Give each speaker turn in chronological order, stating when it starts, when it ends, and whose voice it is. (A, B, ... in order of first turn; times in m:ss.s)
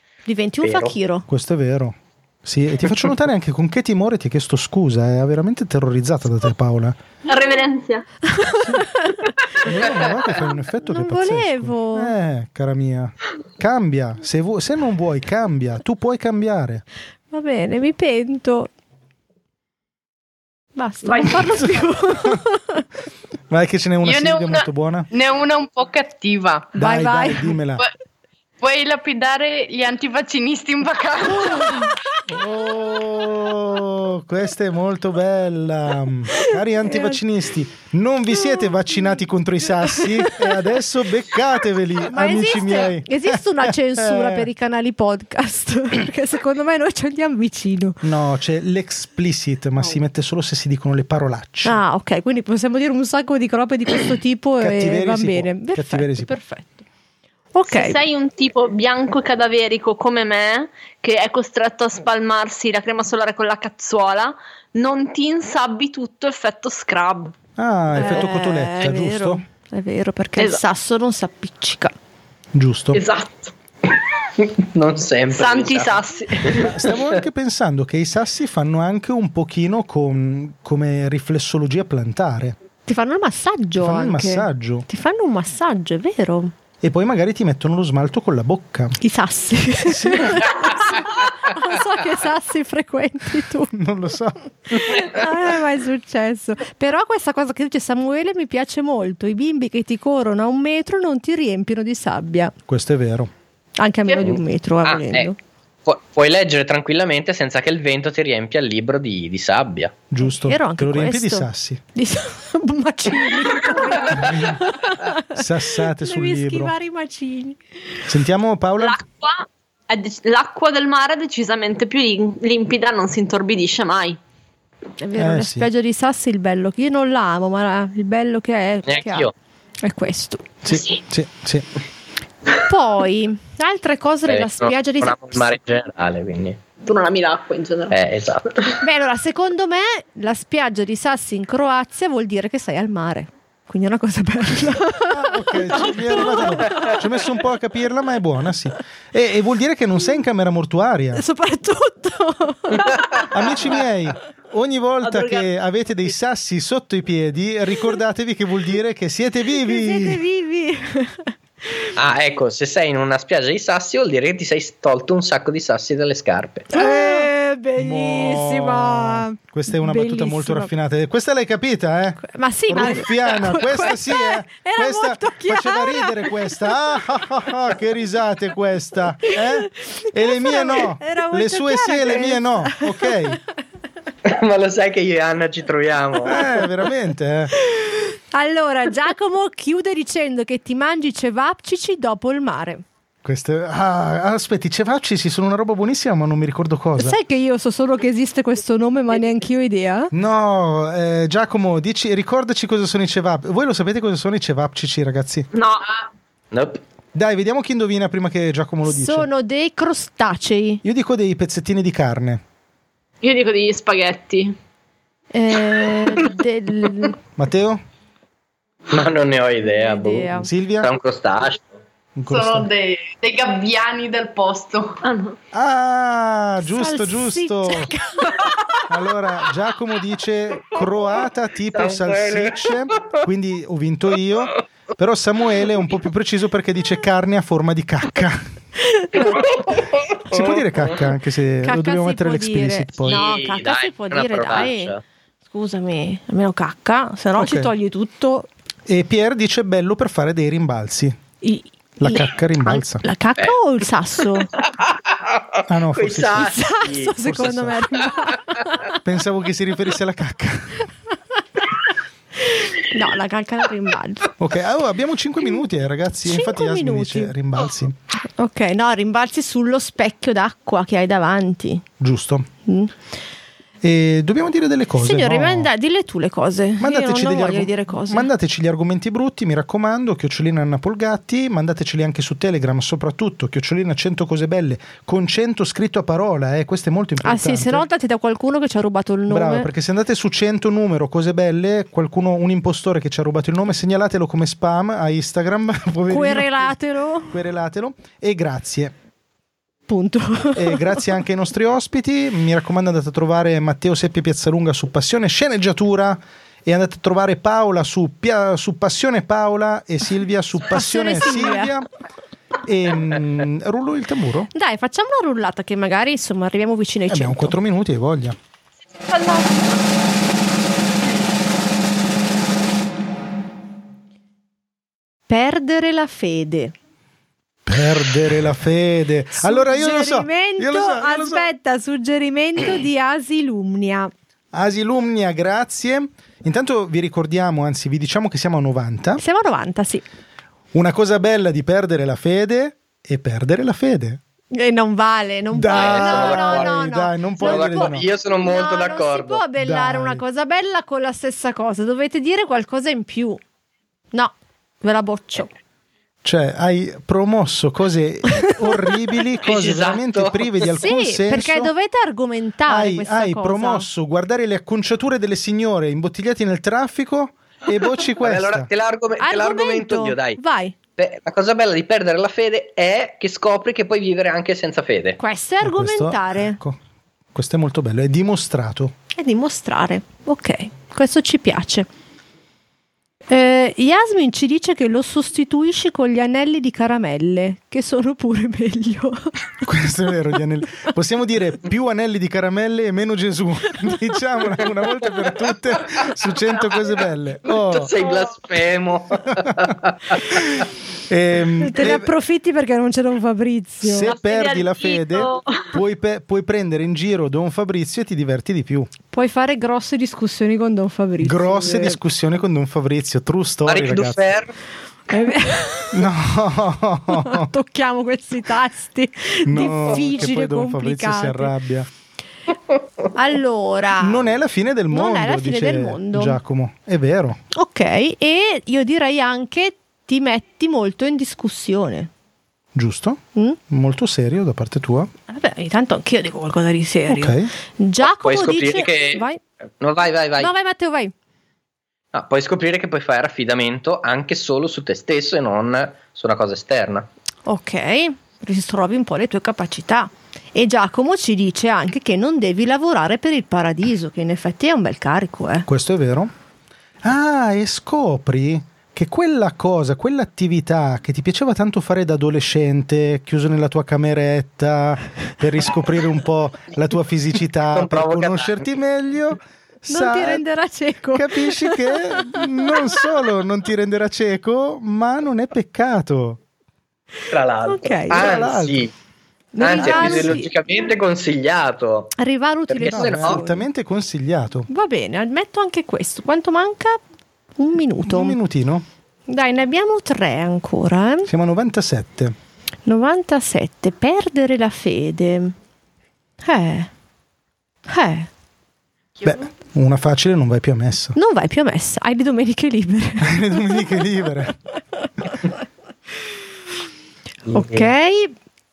0:00.3-0:01.3 A
0:00.6-0:01.0 B
0:01.3-0:07.0 C
0:07.2-0:08.1 D
0:08.2-0:09.3 A
0:08.5-0:08.9 C
0:09.6-0:16.8 C
0:10.9-0:12.1 A
0:17.3-0:18.7 A
0:20.8-0:22.8 A
0:21.0-0:21.8 D
0:23.5-0:25.1 C
0:24.0-0:26.7 E
0:26.8-0:27.5 A
0:26.8-0:27.8 C
0:28.6-0:31.9 E
0:31.3-0:32.0 A
0:32.3-0:44.5 C
0:36.4-0:37.2 A
0:39.8-0:40.6 A
0:42.0-0:48.0 A
0:48.0-0:51.8 C
0:51.6-0:56.8 A
0:54.6-0:56.3 C
0:57.5-0:58.0 A
0:57.7-1:07.4 D
1:07.6-1:09.4 C
1:07.9-1:11.9 A
1:12.5-1:13.0 C
1:12.9-1:13.5 D
1:14.4-1:17.2 B
1:15.3-1:16.7 D
1:16.5-1:22.6 C
1:22.9-1:26.5 A
1:23.8-1:24.9 C
1:26.8-1:29.0 C
1:29.0-1:33.7 A
1:29.8-1:30.7 C
1:33.7-1:35.0 C
1:34.7-1:42.5 A
1:42.7-1:43.3 C
1:43.8-1:45.4 A
1:44.8-1:45.3 B
1:45.9-1:50.0 B
1:50.1-1:51.8 C
1:50.2-1:57.6 A
1:54.2-1:54.6 C
1:55.3-1:56.7 C
1:58.1-1:59.0 C
1:58.8-2:04.2 D
2:05.0-2:09.3 A
2:05.2-2:05.7 C
2:08.9-2:09.3 B
2:09.8-2:10.5 A
2:10.6-2:11.7 C
2:10.7-2:11.0 D
2:12.6-2:15.5 A
2:14.3-2:16.6 B
2:16.8-2:18.0 D
2:17.9-2:18.8 B
2:18.8-2:27.0 A
2:25.0-2:31.2 C
2:26.1-2:27.0 D
2:31.1-2:33.2 A
2:33.3-2:40.2 C
2:35.0-2:35.5 D
2:39.6-2:41.9 A
2:42.0-2:46.7 B
2:46.7-2:50.7 A
2:46.7-3:03.4 C
2:52.2-2:56.7 A
2:59.3-3:03.3 A
3:04.2-3:06.4 B
3:06.3-3:07.5 C
3:07.6-3:12.8 A
3:13.2-3:17.2 C
3:17.0-3:20.1 A
3:20.1-3:25.5 C
3:25.5-3:26.1 D
3:26.5-3:26.8 B
3:27.1-3:29.3 C
3:28.8-3:30.8 A
3:30.8-3:32.4 C
3:33.2-3:34.6 D
3:35.3-3:37.2 A
3:37.4-3:37.8 C
3:38.9-3:41.8 B
3:39.6-3:40.5 A
3:40.4-3:40.9 C
3:42.2-3:42.7 C
3:42.3-3:45.0 E
3:45.0-3:45.4 D
3:45.5-3:47.9 C
3:46.6-3:48.5 A
3:48.9-3:58.5 C
3:51.7-3:53.2 B
3:58.9-3:59.4 A
3:59.2-4:01.0 B
4:00.3-4:03.2 C
4:01.6-4:04.9 A
4:03.0-4:05.0 B
4:05.5-4:08.5 A
4:07.4-4:07.7 C
4:08.9-4:11.2 C
4:11.4-4:14.5 A
4:12.0-4:13.0 C
4:14.6-4:17.2 B
4:15.7-4:16.6 C
4:16.3-4:19.0 A
4:17.2-4:17.8 C
4:19.0-4:20.8 C
4:22.4-4:24.3 A
4:24.4-4:28.0 C
4:26.3-4:27.3 A
4:28.4-4:31.8 A
4:32.0-4:32.5 C
4:32.7-4:32.9 A
4:33.8-4:35.7 C
4:35.0-4:38.3 A
4:36.8-4:47.9 C
4:47.2-4:49.7 A
4:49.3-4:56.8 C
4:56.1-4:57.4 A
4:57.3-4:58.9 C
4:59.9-5:01.1 A
5:00.6-5:11.9 C
5:10.7-5:11.7 A
5:12.6-5:14.5 C
5:14.5-5:17.6 A
5:17.1-5:18.4 C
5:18.9-5:19.8 D
5:25.3-5:26.7 A
5:27.7-5:31.5 C
5:29.3-5:34.1 A
5:34.5-5:39.2 C
5:39.2-5:40.0 A
5:40.7-5:44.2 C
5:44.5-5:53.4 A
5:45.5-5:48.1 C
5:45.7-5:46.8 B
5:47.4-5:49.4 B
5:49.6-5:50.2 C
5:54.1-5:55.5 A
5:56.2-6:01.7 C
5:58.4-5:58.7 A
5:59.4-6:00.6 B
6:00.6-6:03.9 A
6:02.7-6:08.7 C
6:08.1-6:10.4 B
6:09.2-6:10.8 A
6:11.0-6:15.2 B
6:15.2-6:16.6 A
6:15.6-6:16.8 C
6:17.3-6:18.9 C
6:19.2-6:21.9 A
6:23.3-6:29.4 A
6:29.6-6:37.9 C
6:37.5-6:40.5 B
6:40.3-6:42.1 C
6:41.6-6:44.1 A
6:43.8-6:48.9 C
6:44.0-6:45.8 D
6:49.1-6:52.0 A
6:51.2-6:54.4 C
6:53.7-6:54.5 B
6:55.1-6:56.1 A
6:55.9-6:57.5 C
6:57.1-7:01.5 A
6:59.5-7:01.9 C
7:03.1-7:04.2 A
7:04.0-7:07.4 C
7:04.9-7:06.4 A
7:07.5-7:12.1 A
7:12.8-7:15.1 C
7:15.3-7:19.4 A
7:17.1-7:17.5 C
7:18.0-7:19.2 B
7:19.8-7:20.5 B
7:20.4-7:21.1 A
7:22.1-7:27.1 B
7:27.5-7:35.7 A
7:35.7-7:36.3 C
7:37.0-7:50.4 C
7:47.7-7:48.7 B
7:49.9-7:53.0 A
7:51.1-7:56.4 C
7:57.3-7:58.9 B
7:57.7-7:58.2 A
7:58.1-7:58.9 C
7:59.5-8:00.5 A
7:59.6-8:02.2 B
7:59.7-8:00.4 C
8:02.2-8:03.7 A
8:02.7-8:03.5 B
8:02.9-8:04.7 C
8:04.7-8:07.0 A
8:07.6-8:08.4 A
8:08.0-8:08.9 C
8:09.3-8:11.3 A
8:11.3-8:12.4 C
8:12.9-8:15.6 A
8:16.4-8:16.9 A
8:17.9-8:18.3 A
8:19.2-8:21.2 C
8:21.2-8:24.0 A
8:23.2-8:24.6 C
8:27.5-8:27.9 B
8:27.5-8:28.4 A